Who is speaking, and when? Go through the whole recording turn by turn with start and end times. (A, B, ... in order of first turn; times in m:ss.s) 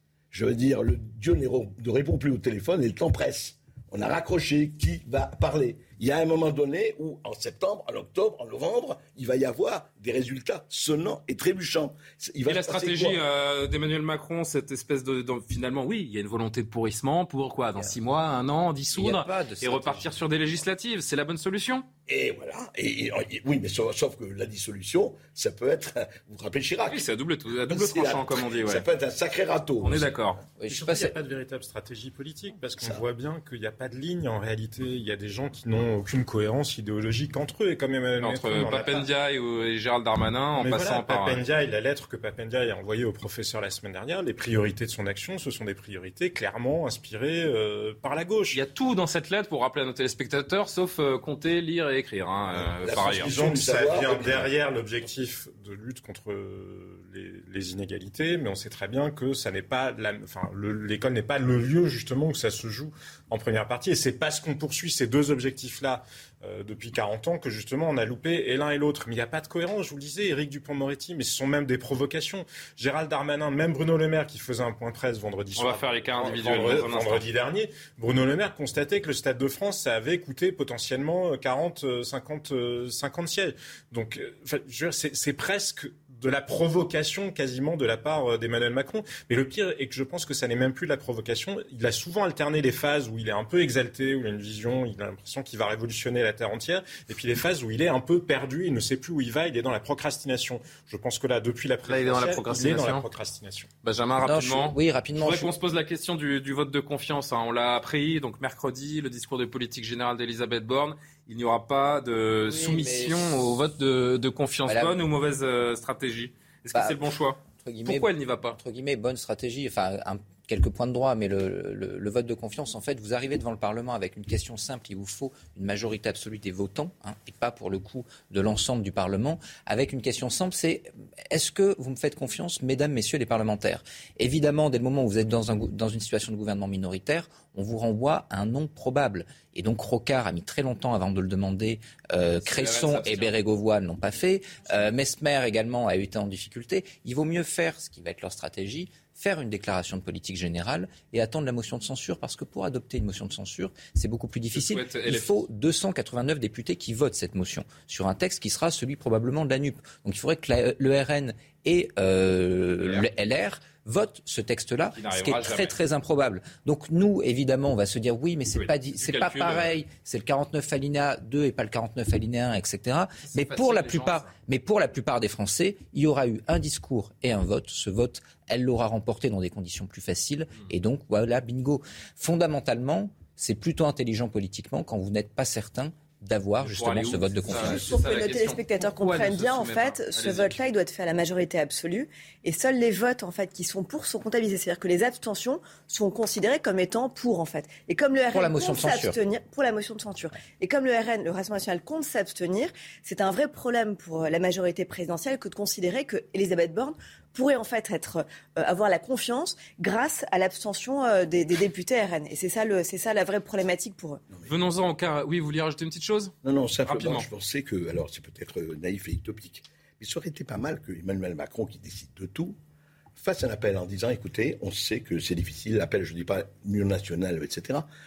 0:00.3-0:13.2 A
0:12.5-0:21.9 B
0:18.9-0:20.1 C
0:22.1-0:27.1 A
0:26.9-0:28.9 B
0:27.6-0:30.1 A
0:29.8-0:30.4 B
0:30.6-0:31.2 C
0:30.7-0:39.1 D
0:38.2-0:41.4 B
0:40.5-0:48.6 D
0:48.5-0:53.3 B
0:52.8-0:54.5 A
0:53.1-1:43.7 D
1:15.6-1:17.3 B
1:41.9-1:43.0 B
1:43.8-1:58.6 B
1:44.2-1:45.5 C
1:52.5-1:53.3 C
1:54.7-1:55.0 C
1:56.7-1:57.0 C
1:57.6-3:07.8 C
2:22.4-2:23.3 B
2:34.5-2:35.4 B
2:45.0-2:45.7 B
2:48.5-2:49.7 B
2:53.3-2:54.3 B
3:06.6-3:10.6 B
3:07.6-3:34.2 E
3:18.3-3:19.2 C
3:34.5-3:36.3 B
3:36.4-3:42.6 A
3:36.9-3:37.3 B
3:43.2-3:47.9 A